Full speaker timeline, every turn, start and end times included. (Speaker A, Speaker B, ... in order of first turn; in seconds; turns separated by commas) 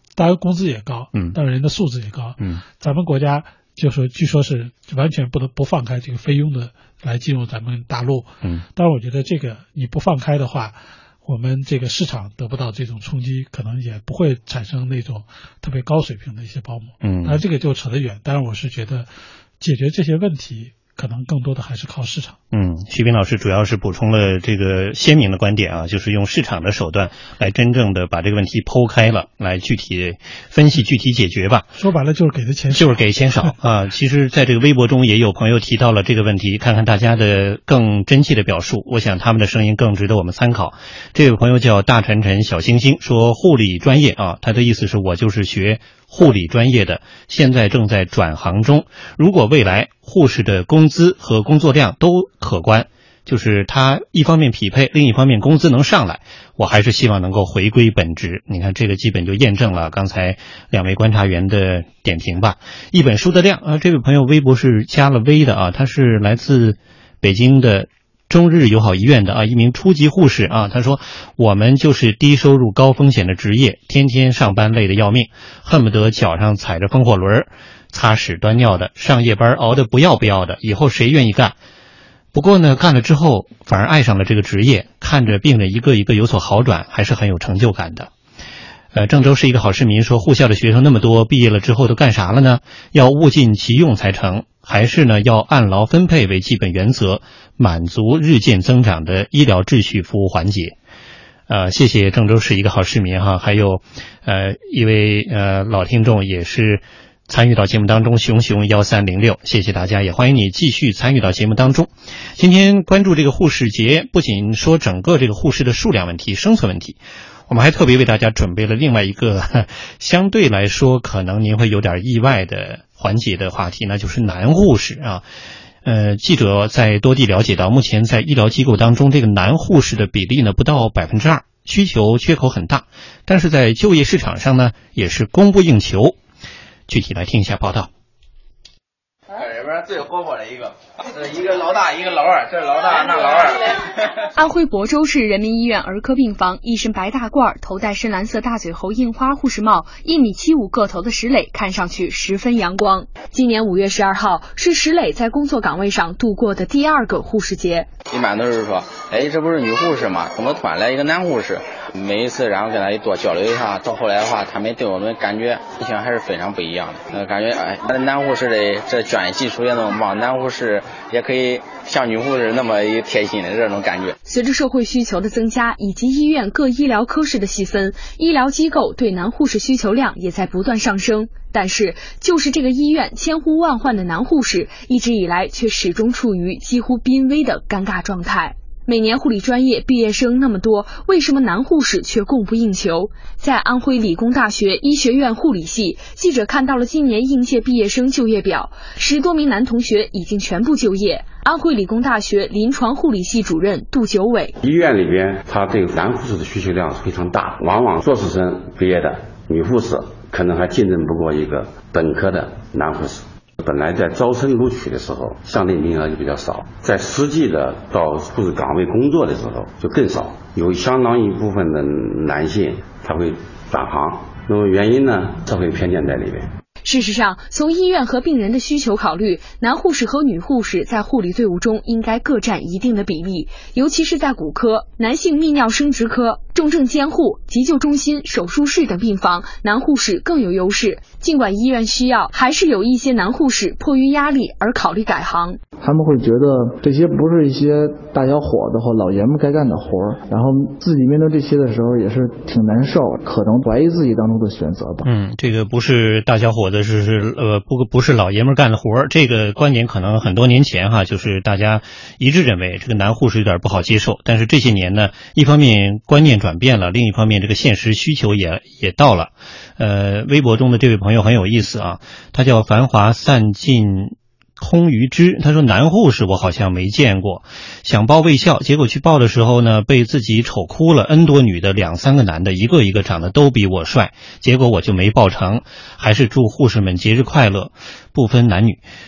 Speaker A: 0.2-19.1, Speaker B: 17.0-17.4, Speaker A: 19.6-22.4, Speaker B: 22.5-31.7, Speaker A: 31.8-33.5, Speaker B: 32.7-81.6, Speaker B: 82.3-88.1, Speaker B: 88.9-100.8, Speaker B: 101.5-125.2, Speaker B: 125.8-136.2, Speaker B: 136.9-137.9, Speaker C: 139.4-143.6, Speaker D: 144.3-157.9, Speaker C: 158.1-174.1, Speaker D: 174.3-204.6, Speaker E: 204.6-226.5, Speaker D: 226.8-245.6, Speaker F: 245.8-255.1, Speaker B: 255.0-288.8